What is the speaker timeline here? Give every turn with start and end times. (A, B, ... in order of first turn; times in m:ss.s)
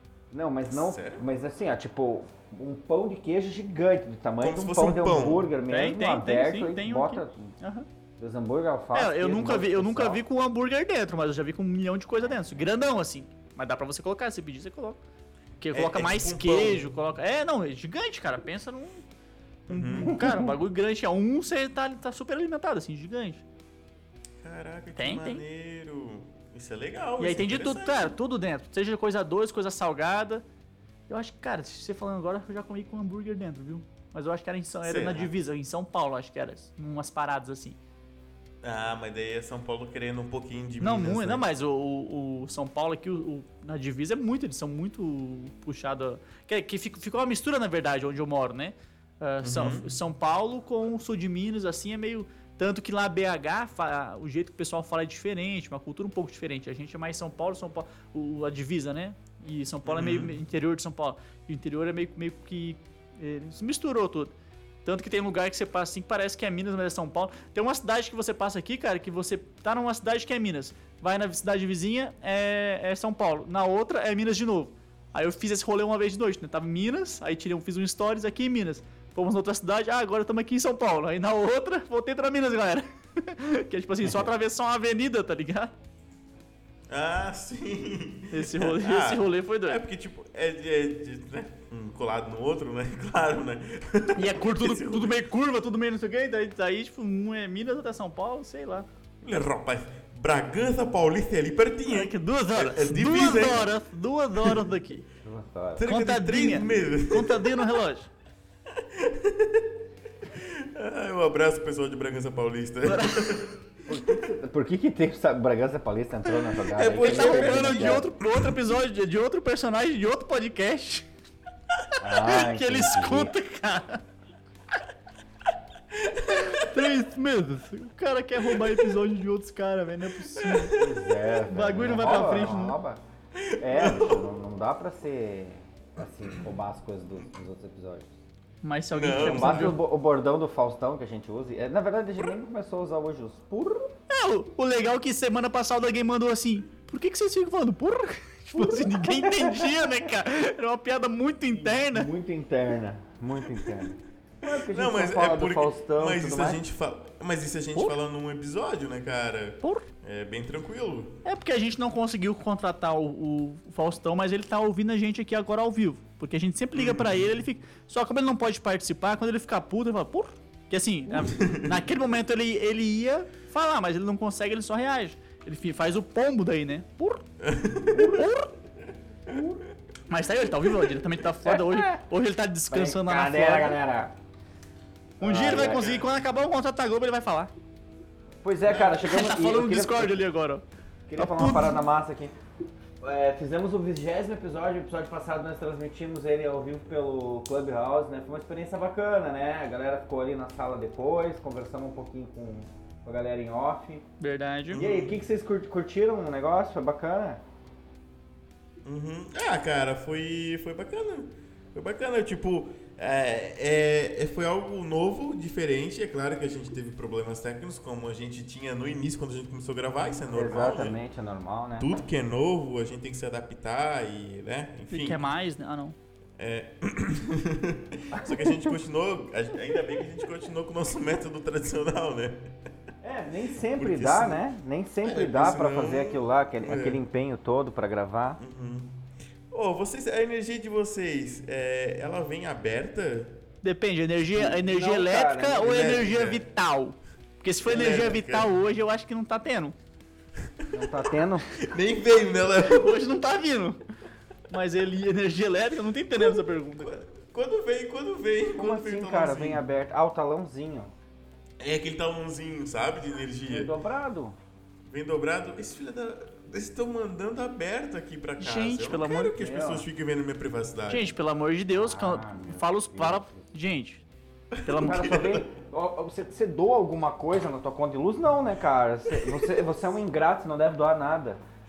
0:00.3-0:07.6 A
0:00.7-0:01.2 B
0:04.4-0:05.5 B
0:05.7-0:07.9 C
0:08.2-0:10.2 A
0:08.9-0:15.0 C
0:15.6-0:19.0 C
0:15.7-0:16.9 B
0:19.7-0:20.2 B
0:19.7-0:23.4 C
0:20.1-0:20.5 A
0:24.4-0:28.1 B
0:25.0-0:25.4 C
0:27.2-0:30.4 C
0:31.1-0:37.8 C
0:34.8-0:35.3 B
0:38.6-0:41.4 B
0:40.8-1:04.3 C
0:49.4-0:50.0 B
0:59.8-1:00.4 B
1:04.8-1:25.7 C
1:26.9-1:35.2 B
1:28.3-1:29.8 C
1:34.2-1:38.9 C
1:39.2-1:43.8 B
1:41.9-1:45.1 C
1:45.2-1:45.9 A
1:45.8-1:47.6 B
1:45.9-1:48.1 C
1:48.7-1:49.7 B
1:50.3-1:54.2 B
1:52.8-1:53.4 C
1:53.9-1:58.1 A
1:56.7-1:58.5 B
1:57.0-2:01.1 C
2:02.0-2:03.3 A
2:02.0-2:04.0 C
2:05.9-2:06.7 B
2:06.5-2:10.8 C
2:08.5-2:08.9 B
2:10.4-2:11.1 B
2:10.7-2:13.0 A
2:11.5-2:12.8 C
2:13.4-2:14.2 B
2:13.6-2:18.1 A
2:18.6-2:19.8 C
2:19.0-2:19.8 B
2:19.2-2:23.9 A
2:24.1-2:32.1 C
2:28.6-2:29.9 A
2:31.5-2:36.6 A
2:33.5-2:33.8 B
2:34.4-2:41.2 B
2:39.6-2:39.9 C
2:41.2-2:57.3 C
2:46.8-2:47.3 B
2:51.2-2:51.8 B
2:57.4-2:58.2 B
2:57.9-2:58.2 A
2:58.0-2:58.5 C
2:59.3-2:59.6 A
3:00.1-3:03.8 C
3:01.4-3:02.0 A
3:02.7-3:04.1 A
3:05.2-3:06.0 A
3:05.2-3:07.5 C
3:05.6-3:06.0 B
3:08.4-3:10.2 A
3:08.7-3:10.6 C
3:11.1-3:12.4 A
3:11.2-3:11.8 C
3:13.0-3:24.0 A
3:24.2-3:24.8 C
3:24.7-3:25.2 B
3:24.7-3:27.4 A
3:28.8-3:41.0 B
3:40.3-3:42.0 A
3:41.8-3:45.2 B
3:44.9-3:46.0 C
3:46.4-3:52.5 B
3:48.1-3:48.6 A
3:53.0-3:58.4 A
3:53.7-3:54.4 B
3:55.0-3:57.0 B
3:58.4-3:59.0 B
3:59.5-4:03.4 B
4:03.6-4:09.8 C
4:04.4-4:06.1 A
4:05.6-4:06.4 B
4:07.6-4:08.5 B
4:10.4-4:10.9 B
4:10.7-4:11.5 A
4:11.6-4:13.2 B
4:12.7-4:13.8 C
4:14.5-4:17.0 C
4:16.2-4:19.6 B
4:18.5-4:20.9 A
4:21.6-4:23.7 B
4:23.5-4:24.4 A
4:24.9-4:31.1 B
4:28.4-4:29.4 C
4:29.4-4:29.9 A
4:30.9-4:34.0 C
4:31.7-4:33.4 A
4:34.5-4:35.5 B
4:34.6-4:35.2 C
4:34.7-4:41.4 A
4:39.1-4:39.6 B